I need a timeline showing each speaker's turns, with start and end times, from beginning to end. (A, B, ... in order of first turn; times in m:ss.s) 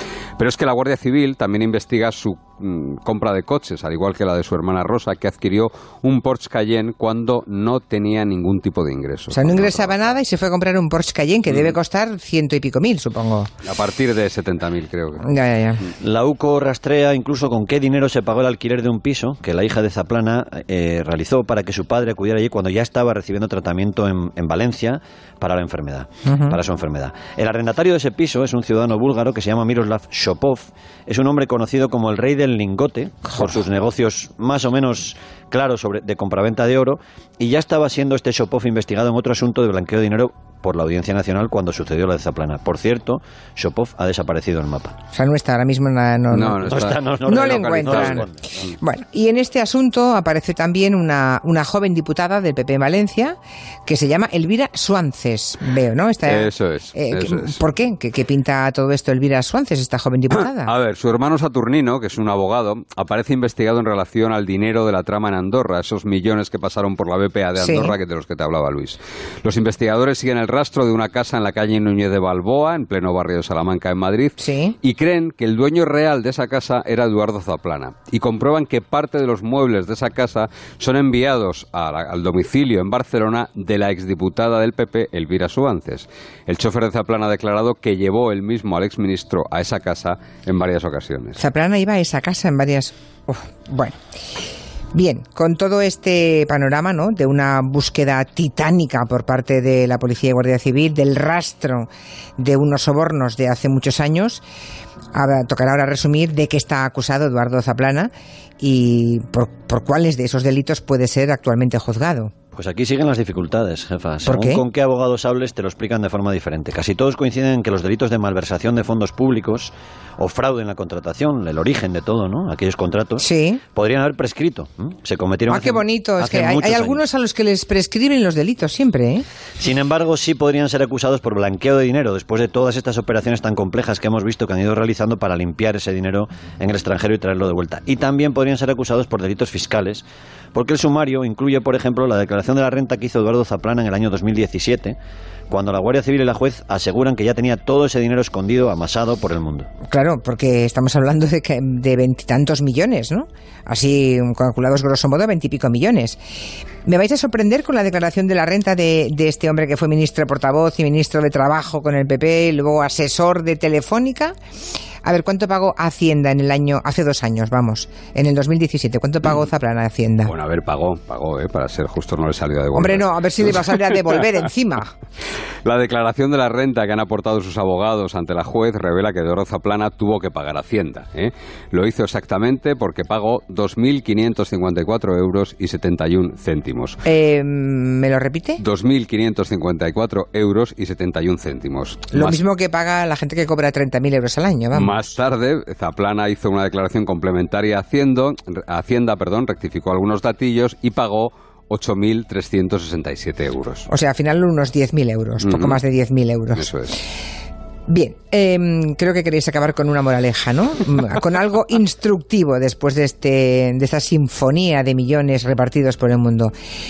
0:00.4-0:10.1 A
0:09.3-0:13.5 B
0:13.6-0:15.3 A
0:15.2-0:15.8 B
0:16.0-0:45.0 C
0:26.2-0:26.6 B
0:45.1-0:48.2 B
0:46.3-0:48.3 A
0:46.6-0:48.6 C
0:48.8-1:00.7 B
0:56.2-0:57.6 A
1:00.4-1:31.4 A
1:07.6-1:07.9 B
1:14.4-1:14.7 B
1:31.4-1:34.0 B
1:34.9-1:44.4 B
1:45.1-1:52.3 B
1:52.5-2:07.0 C
1:54.2-1:54.6 B
2:03.2-2:03.6 B
2:05.5-2:09.2 B
2:09.6-2:25.0 C
2:25.5-2:29.7 C
2:29.9-2:36.2 B
2:36.8-2:44.3 B
2:45.0-2:50.3 B
2:50.2-2:53.8 A
2:52.7-2:54.9 B
2:55.6-3:07.0 A
3:07.0-3:08.6 B
3:08.6-3:12.4 A
3:12.1-3:15.0 B
3:14.7-3:23.9 A
3:23.9-3:26.7 B
3:25.4-3:25.8 A
3:26.6-3:26.9 A
3:27.9-3:36.5 B